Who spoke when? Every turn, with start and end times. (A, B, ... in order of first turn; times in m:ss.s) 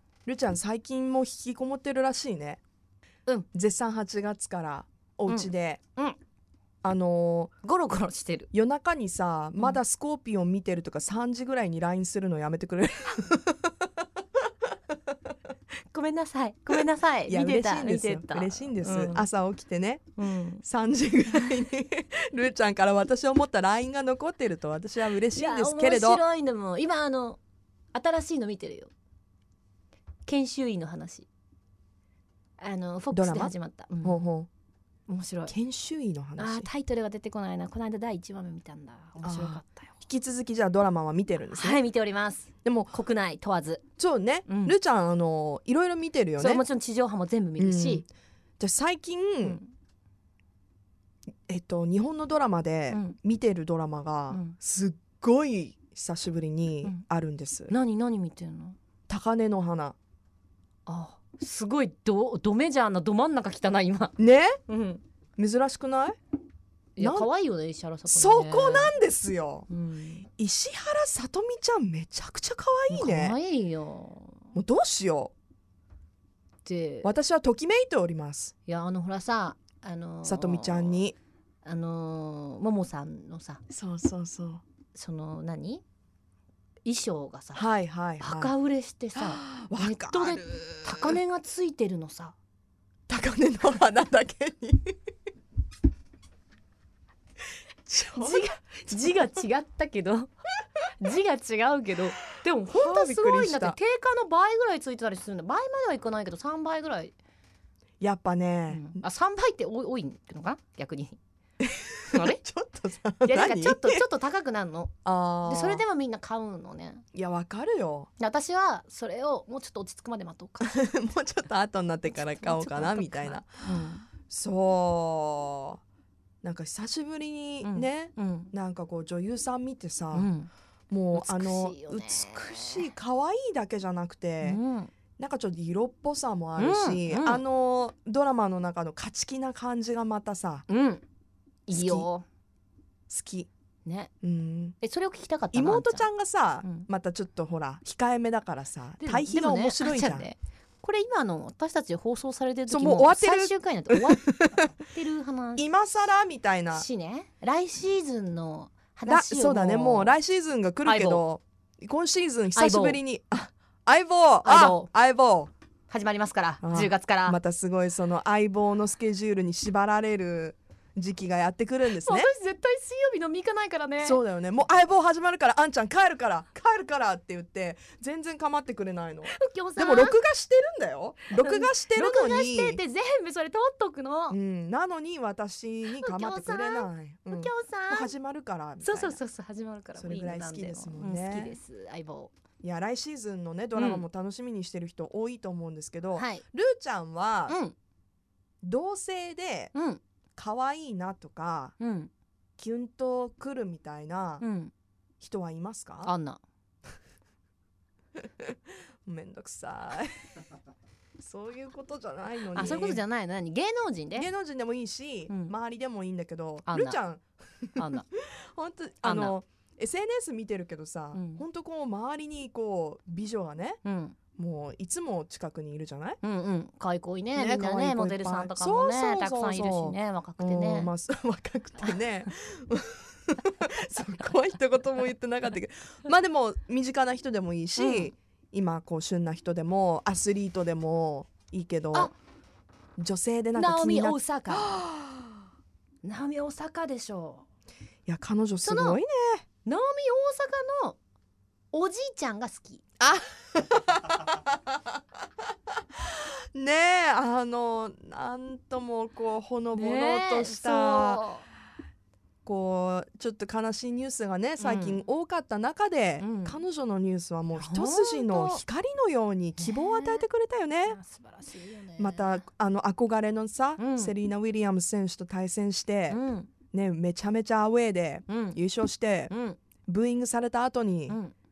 0:00.2-0:02.6 A
0:03.5-0:05.8 A
0:05.3-0:06.2 B
0:06.8-0:07.5 A
0:07.6-0:08.5 B
0:08.5-0:13.9 A
0:15.8-0:19.3 B
0:17.3-0:26.2 A
0:20.2-0:20.6 B
0:21.3-0:21.6 B
0:25.1-0:27.4 B
0:27.9-0:28.9 B
0:30.2-0:31.3 B
0:32.6-0:34.2 B
0:33.1-0:34.5 A
0:35.1-0:35.5 B
0:35.5-0:36.7 A
0:36.4-0:39.9 B
0:39.2-0:41.8 A
0:41.4-0:43.8 B
0:42.6-0:42.9 A
0:44.0-0:46.6 A
0:44.5-0:44.8 B
0:46.4-0:48.1 B
0:47.6-0:48.1 A
0:48.6-0:49.6 A
0:49.4-0:49.7 B
0:51.5-0:57.7 A
0:52.9-0:53.2 B
0:54.3-0:54.6 B
0:57.7-0:58.8 B
0:59.1-1:00.0 A
1:00.8-1:04.2 B
1:04.2-1:04.6 A
1:04.7-1:05.0 B
1:05.4-1:06.2 A
1:07.0-1:09.0 B
1:07.0-1:07.3 A
1:08.1-1:09.7 A
1:09.7-1:10.3 B
1:10.3-1:13.3 A
1:12.9-1:14.5 B
1:14.5-1:15.3 A
1:16.6-1:17.1 B
1:17.0-1:18.5 A
1:18.6-1:21.0 B
1:20.2-1:21.2 A
1:21.6-1:23.6 B
1:23.7-1:24.6 A
1:24.9-1:25.8 B
1:26.8-1:27.6 B
1:27.5-1:28.5 A
1:28.2-1:32.3 B
1:29.1-1:31.2 A
1:33.1-1:35.0 A
1:37.9-1:39.0 A
1:38.1-1:40.3 B
1:40.8-1:47.1 B
1:42.7-1:43.8 A
1:48.0-1:49.0 A
1:48.7-1:51.2 B
1:51.6-1:54.0 A
1:52.1-1:52.4 B
1:53.2-1:57.0 B
1:55.0-1:55.8 A
1:57.1-1:58.1 A
1:58.2-2:00.7 B
2:00.6-2:03.7 A
2:02.1-2:04.1 B
2:04.3-2:05.8 A
2:06.4-2:10.3 A
2:07.6-2:08.5 B
2:10.1-2:10.5 B
2:10.9-2:14.6 A
2:11.1-2:12.9 B
2:14.4-2:14.9 B
2:15.2-2:20.6 A
2:16.6-2:17.4 B
2:20.7-2:21.0 B
2:21.7-2:22.2 B
2:21.7-2:22.1 A
2:23.1-2:23.5 A
2:23.8-2:24.1 B
2:24.2-2:24.8 A
2:24.8-2:26.1 B
2:25.5-2:30.3 A
2:26.6-2:26.9 B
2:29.0-2:35.7 B
2:32.7-2:34.8 A
2:35.6-2:36.8 A
2:36.7-2:40.2 B
2:39.1-2:45.5 A
2:40.8-2:41.2 B
2:42.5-2:43.0 B
2:44.4-2:44.9 B
2:45.9-2:47.4 B
2:46.6-2:52.3 A
2:51.9-2:54.2 B
2:54.0-3:02.8 A
2:59.2-3:00.2 B
3:01.3-3:04.4 B
3:04.3-3:09.2 A
3:05.9-3:08.1 B
3:08.8-3:12.3 B
3:10.0-3:11.6 A
3:12.6-3:17.6 A
3:13.7-3:14.0 B
3:16.1-3:16.4 B
3:17.5-3:17.7 B
3:18.6-3:19.7 A
3:19.7-3:20.0 B
3:20.4-3:21.7 A
3:21.8-3:22.1 B
3:22.6-3:24.4 A
3:24.4-3:24.7 B
3:25.2-3:26.1 A
3:26.0-3:26.4 B
3:28.2-3:30.5 A
3:31.2-3:33.0 A
3:32.5-3:34.3 B
3:34.2-3:43.8 A
3:35.3-3:35.5 B
3:36.7-3:37.0 B
3:37.8-3:38.1 B
3:39.0-3:39.4 B
3:41.1-3:41.4 B
3:43.8-3:44.2 B
3:44.3-3:46.2 A
3:46.2-3:50.9 B
3:47.3-4:02.1 A
3:57.8-3:58.1 B
4:03.0-4:05.3 A
4:03.5-4:04.8 B
4:06.0-4:07.4 B
4:08.1-4:09.4 A
4:08.6-4:09.0 B
4:09.6-4:11.0 B
4:11.7-4:12.8 B
4:13.0-4:14.8 A
4:16.0-4:21.2 A
4:19.7-4:21.5 B
4:22.4-4:31.0 A
4:24.6-4:25.1 B
4:26.2-4:26.6 B
4:27.5-4:28.6 B
4:29.6-4:30.2 B
4:30.8-4:32.4 B
4:32.0-4:36.2 A
4:33.8-4:34.1 B
4:36.1-4:36.5 B
4:36.7-4:39.3 A
4:38.3-4:38.6 B
4:39.3-4:39.6 B
4:39.8-4:41.2 A
4:41.1-4:41.3 B